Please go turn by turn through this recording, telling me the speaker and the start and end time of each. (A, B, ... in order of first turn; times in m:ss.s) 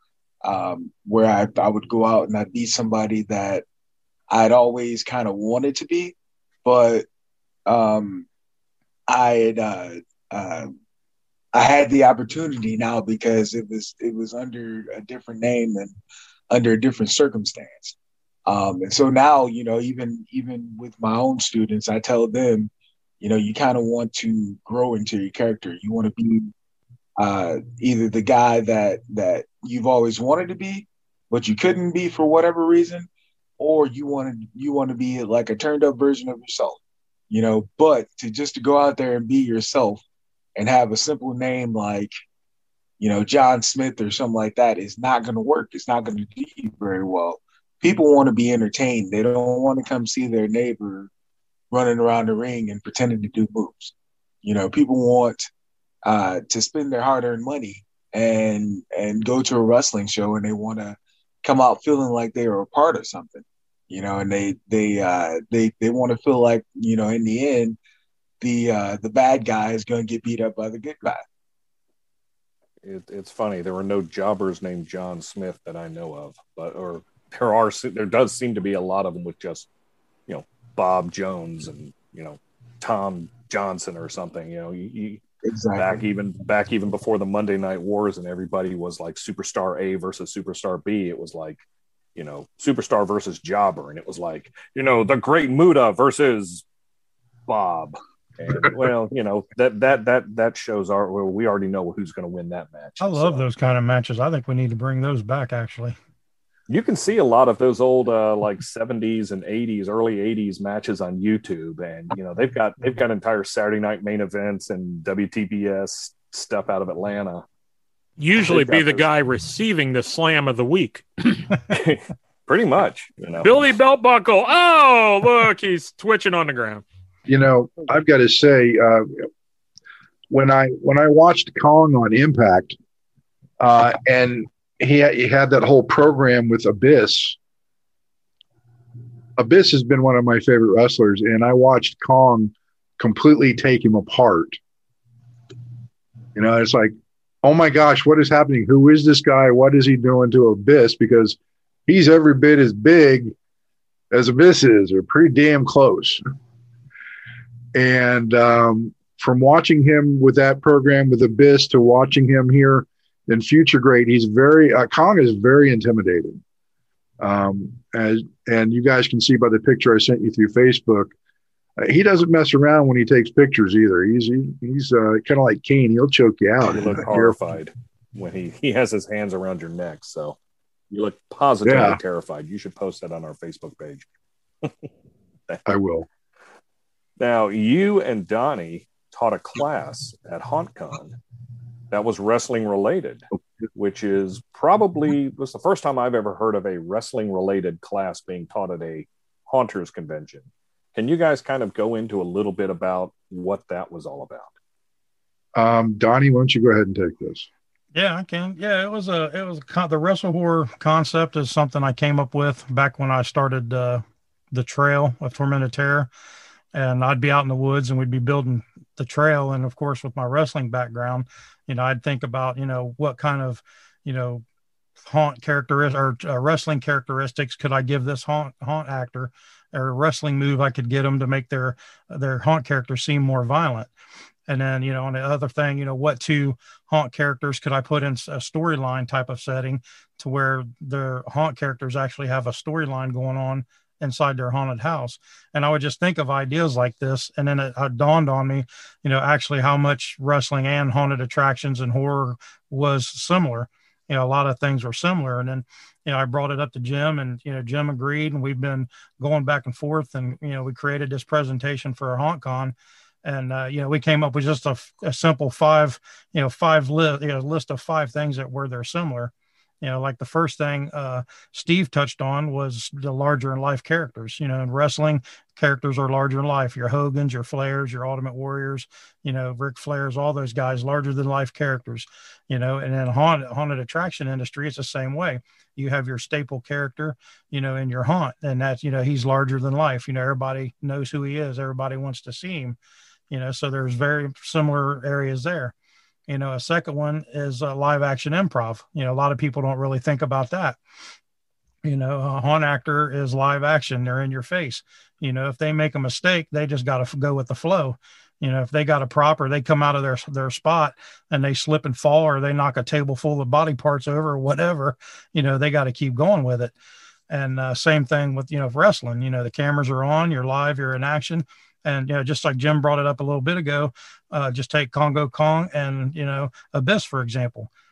0:00.4-0:03.6 A
0:04.3-0:07.1 A
0:07.7-0:08.3 A
0:09.1-0:10.8 A
0:11.5-0:15.9 A
0:16.5-0:17.9 A
0:18.4-0:22.7 A
0:23.2-0:26.5 A
0:27.2-0:33.1 A
0:33.6-0:36.8 A
0:37.3-0:40.0 A
0:40.6-0:42.1 A
0:43.0-0:51.1 A
0:51.7-0:53.9 A
0:54.4-0:55.5 A
0:56.0-1:07.8 A
1:08.4-1:11.2 A
1:12.8-1:19.7 B
1:20.3-1:25.2 B
1:25.5-1:26.0 A
1:25.8-1:31.6 B
1:32.2-1:36.6 B
1:37.5-1:43.5 B
1:43.0-1:46.0 C
1:46.7-1:57.4 B
1:58.2-2:01.1 D
1:58.4-1:59.0 B
2:01.7-2:03.5 B
2:03.4-2:06.8 D
2:07.3-2:09.2 E
2:10.3-2:12.8 E
2:13.6-2:17.4 E
2:19.4-2:24.6 E
2:26.3-2:33.3 E
2:34.1-2:36.2 E
2:37.7-2:46.4 E
2:47.2-2:51.1 E
2:51.8-2:57.4 E
2:56.6-3:00.4 B
3:00.9-3:04.0 B
3:01.6-3:02.0 E
3:05.6-3:06.1 E
3:07.2-3:11.2 B
3:11.9-3:24.5 B
3:25.5-3:27.5 E
3:27.9-3:36.1 C
3:36.7-3:44.4 C
3:45.0-3:53.9 C
3:54.5-4:52.8 C
4:53.3-4:55.7 C
4:56.3-5:00.8 C
5:01.8-5:16.7 C
5:17.3-5:27.7 C